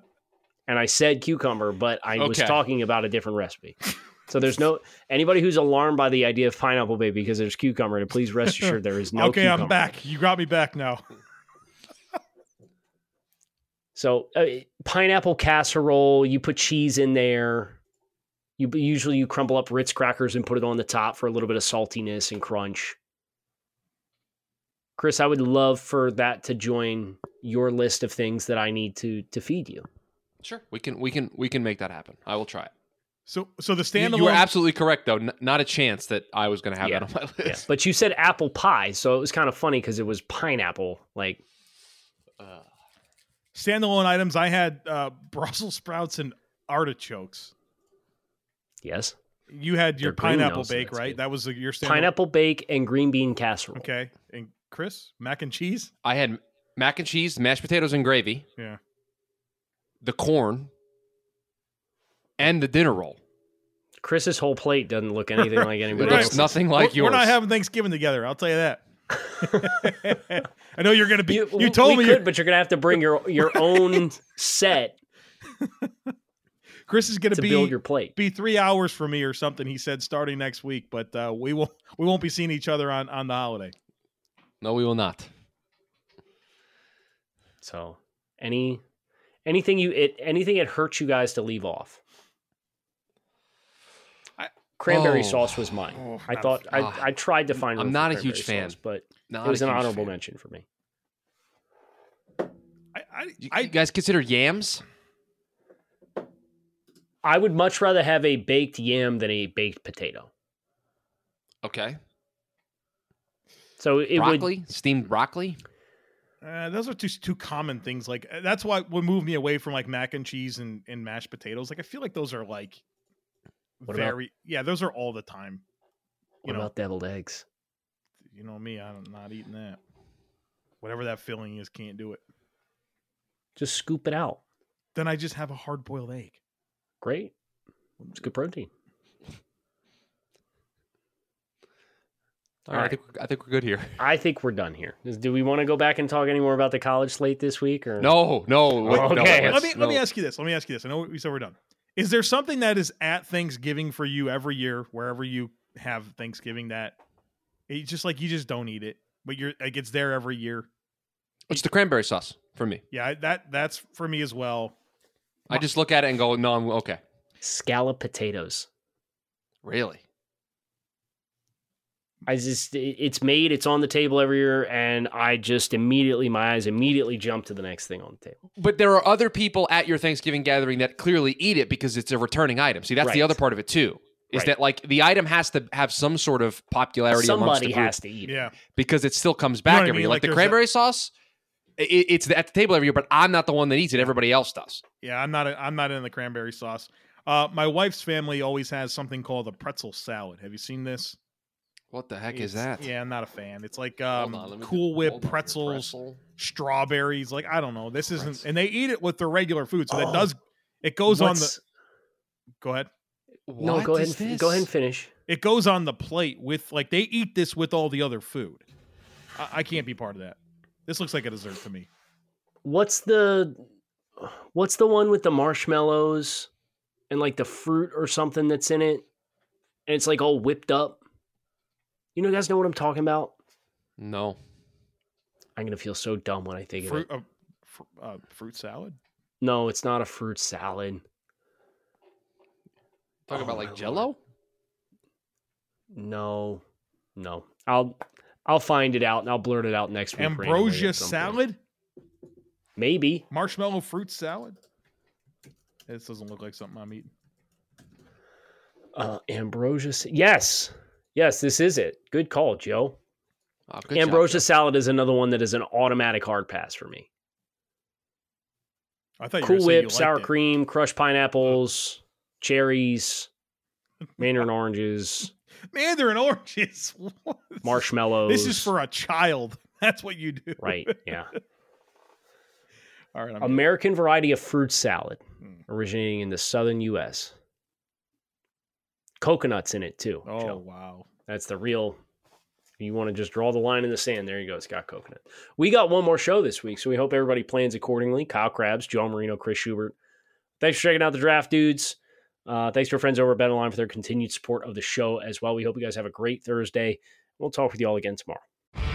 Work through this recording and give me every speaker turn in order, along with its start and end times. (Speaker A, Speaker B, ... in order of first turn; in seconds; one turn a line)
Speaker A: 0.7-9.8
Speaker B: 2.1-2.6
Speaker C: 8.4-11.0
Speaker A: 13.9-17.8
Speaker A: 18.6-23.0
Speaker A: 25.0-29.9
Speaker B: 30.4-32.7
Speaker C: 33.3-34.5
Speaker B: 34.0-37.6
Speaker A: 36.8-41.4
Speaker C: 43.5-47.5
Speaker A: 48.8-49.1
Speaker C: 49.5-52.1
Speaker A: 50.0-51.2
Speaker A: 51.8-53.9
Speaker C: 53.7-55.9
Speaker B: 56.0-58.4
Speaker B: 60.0-60.7
Speaker B: 62.4-63.2
Speaker A: 64.0-66.6
Speaker C: 65.4-72.3
Speaker B: 66.0-67.3
Speaker A: 69.4-69.8
Speaker A: 71.3-75.0
Speaker C: 73.4-74.0
Speaker C: 75.5-76.1
Speaker C: 76.9-83.7
Speaker A: 77.3-78.1
Speaker B: 84.6-85.3
Speaker A: 87.6-88.8
Speaker A: 89.4-92.0
Speaker A: 94.8-100.6
Speaker B: 94.9-96.1
Speaker C: 96.2-96.6
Speaker B: 96.7-98.8
Speaker B: 99.3-100.1
Speaker C: 102.9-103.7
Speaker B: 103.4-104.8
Speaker A: 107.2-110.3
Speaker B: 111.6-112.0
Speaker A: 113.8-114.5
Speaker B: 114.2-115.6
Speaker C: 116.4-122.8
Speaker C: 123.8-125.6
Speaker A: 123.9-124.1
Speaker A: 126.4-127.4
Speaker C: 126.4-126.7
Speaker C: 128.3-129.8
Speaker C: 130.8-132.2
Speaker A: 133.6-134.4
Speaker C: 134.9-136.4
Speaker A: 137.0-137.3
Speaker A: 138.1-138.7
Speaker B: 142.7-144.0
Speaker A: 144.0-148.2
Speaker B: 148.0-150.0
Speaker A: 148.8-149.7
Speaker C: 148.8-157.0
Speaker C: 157.7-160.7
Speaker B: 161.5-162.8
Speaker C: 162.9-164.7
Speaker B: 165.5-167.0
Speaker A: 167.4-168.7
Speaker B: 169.6-170.0
Speaker A: 172.2-178.4
Speaker B: 178.6-187.9
Speaker A: 183.0-183.4
Speaker A: 187.1-188.4
Speaker C: 188.2-188.6
Speaker B: 188.7-191.1
Speaker C: 189.7-190.6
Speaker B: 191.8-194.8
Speaker C: 195.0-201.2
Speaker B: 201.9-202.9
Speaker C: 202.3-211.5
Speaker B: 204.1-206.2
Speaker A: 209.9-210.3
Speaker A: 211.1-211.6
Speaker C: 212.6-212.9
Speaker B: 213.5-214.7
Speaker A: 213.6-215.1
Speaker C: 215.3-218.6
Speaker C: 219.3-221.9
Speaker A: 222.6-223.6
Speaker A: 224.2-226.5
Speaker A: 227.1-229.0
Speaker A: 229.9-231.0
Speaker A: 232.1-233.3
Speaker B: 234.0-234.4
Speaker A: 235.6-237.1
Speaker C: 236.8-239.0
Speaker A: 239.4-241.0
Speaker B: 243.3-244.2
Speaker A: 243.3-244.1
Speaker A: 245.9-246.6
Speaker A: 247.2-251.4
Speaker C: 250.2-251.6
Speaker A: 252.8-253.2
Speaker C: 253.3-254.6
Speaker C: 255.9-257.1
Speaker A: 258.9-263.0
Speaker B: 263.7-264.5
Speaker A: 263.9-267.1
Speaker C: 269.2-270.3
Speaker A: 269.4-273.3
Speaker A: 274.2-275.3
Speaker C: 275.7-281.4
Speaker A: 277.6-278.7
Speaker A: 280.6-281.3
Speaker C: 283.1-283.6
Speaker A: 283.4-287.3
Speaker A: 289.2-290.6
Speaker C: 290.2-291.1
Speaker A: 291.3-292.0
Speaker A: 292.8-299.9
Speaker A: 300.6-308.4